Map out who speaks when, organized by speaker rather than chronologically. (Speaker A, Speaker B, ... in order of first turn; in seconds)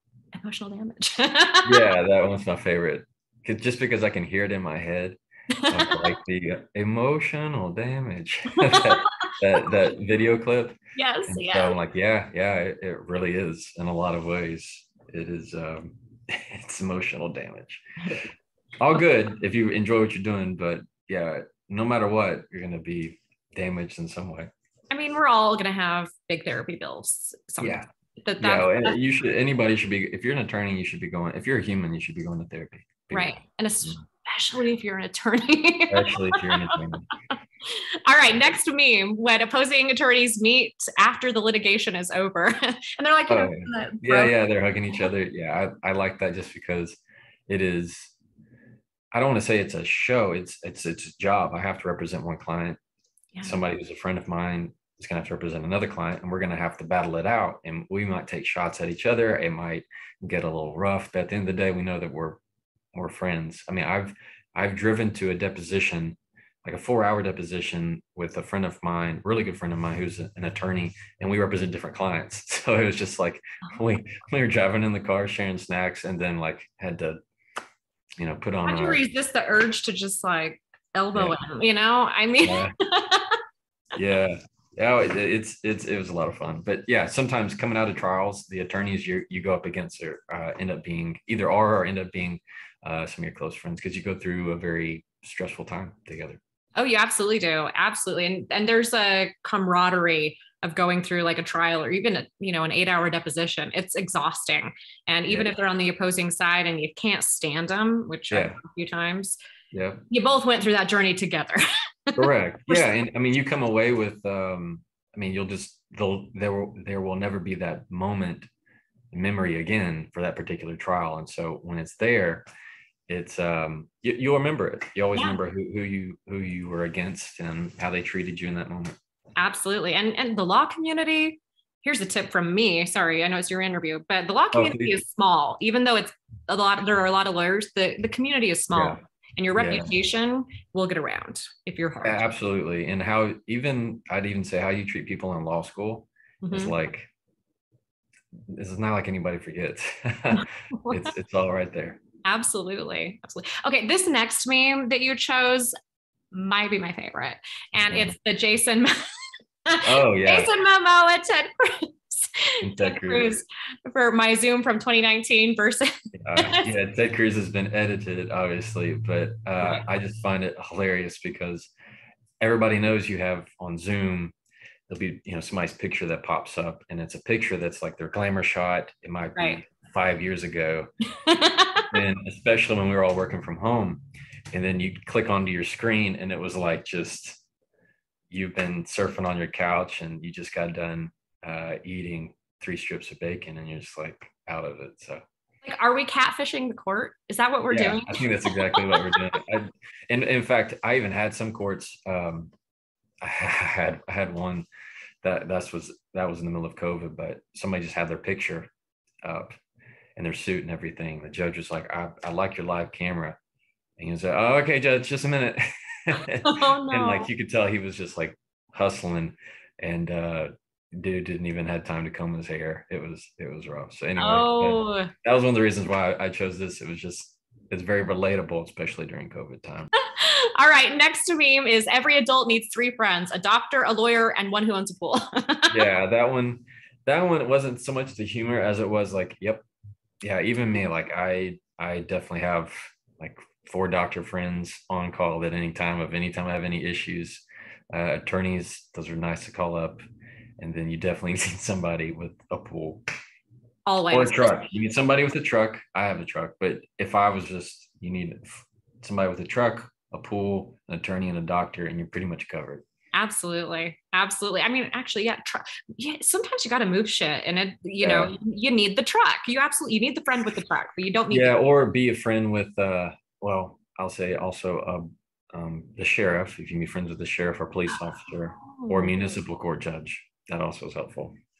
Speaker A: 0.4-1.9, 5.6-6.1, 8.6-9.3, 10.9-11.8, 24.9-28.9, 33.1-35.9, 37.6-44.3, 78.6-83.4, 96.8-109.4, 110.1-113.0, 129.4-142.2, 146.4-146.7, 150.3-151.1, 152.2-155.7, 156.3-158.9, 159.7-166.7, 179.3-179.6, 181.2-182.0, 195.6-199.2, 216.4-217.3, 224.2-225.1, 230.0-235.8, 253.8-254.7, 263.1-271.6, 278.7-279.4
Speaker B: 1.6-5.2, 5.7-10.8, 11.3-17.8, 18.8-24.5, 27.6-27.9, 28.4-34.0, 35.9-37.1, 43.3-48.1, 49.1-52.8, 53.4-62.4, 62.9-77.2, 78.2-79.0, 82.4-82.7, 83.9-96.4, 105.3-105.5, 108.3-108.6, 109.7-110.0, 112.2-118.5, 119.1-122.4, 123.1-128.9, 134.5-135.0, 138.7-139.0, 139.5-139.9, 142.0-147.1, 148.5-152.0, 157.8-158.1, 159.8-160.5, 162.6-163.3, 166.2-171.7, 172.4-174.3, 174.9-180.9, 181.9-187.4, 188.3-195.2, 197.7-202.5, 203.2-204.7, 205.2-208.7, 209.2-209.5, 210.2-213.4, 214.0-229.9, 235.7-239.6, 240.2-250.0, 250.6-253.0, 254.1-262.8, 268.0-268.3, 271.3-281.3